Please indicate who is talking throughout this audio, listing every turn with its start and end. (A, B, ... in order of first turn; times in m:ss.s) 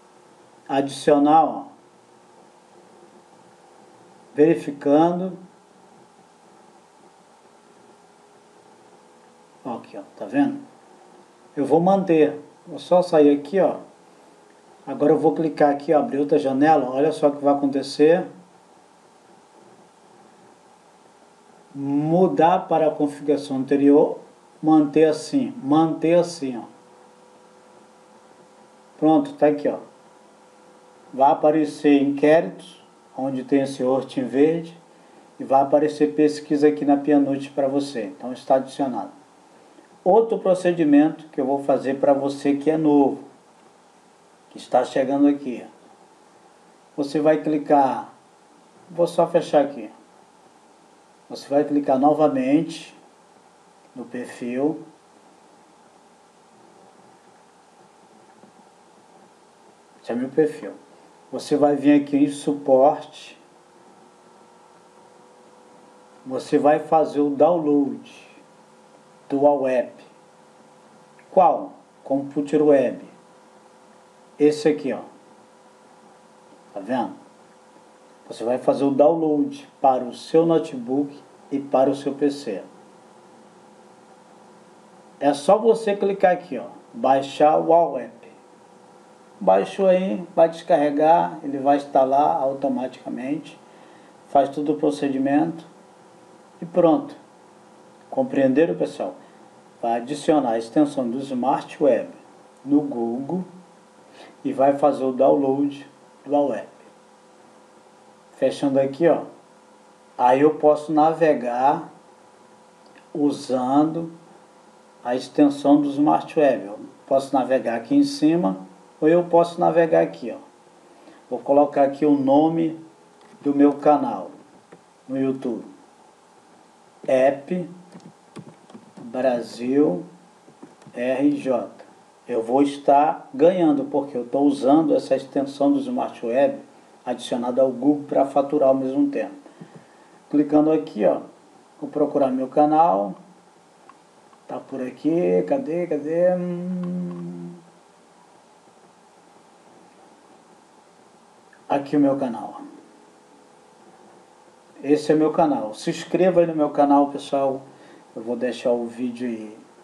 0:00.7-0:01.7 A
0:04.3-0:05.4 A
0:09.6-0:10.6 A
0:11.6-0:13.8 A
0:14.9-0:18.3 A
0:21.7-0:26.7 A
0:29.0-0:29.8 A
0:31.1-0:34.8 A
0:35.4-0:39.1 A
0:40.0-0:43.2 A
0:44.5-0:45.7 A
0:47.0-0:48.1 A
0:48.9-0:49.9 A
0:51.3-0:53.0 A
0:53.9-0:54.8 A
1:00.0-1:00.8 A
1:01.3-1:03.4 A
1:06.2-1:08.4 A
1:09.3-1:10.1 A
1:11.3-1:13.1 A
1:14.4-1:15.1 A
1:16.7-1:17.2 A
1:18.2-1:22.7 A
1:25.2-1:28.4 A
1:29.4-1:33.6 A
1:34.3-1:35.7 A
1:36.6-1:37.2 A
1:38.1-1:39.2 A
1:39.8-1:43.5 A
1:44.4-1:46.9 A
1:48.3-1:49.3 A
1:50.2-1:51.9 A
1:53.1-1:54.1 A
1:55.0-2:00.4 A
2:01.3-2:02.8 A
2:03.4-2:04.3 A
2:05.1-2:05.7 A
2:07.1-2:07.7 A
2:09.0-2:10.1 A
2:10.9-2:19.4 A
2:20.3-2:21.2 A
2:21.8-2:23.2 A
2:24.5-2:27.6 A
2:31.7-2:32.6 A
2:34.8-2:39.6 A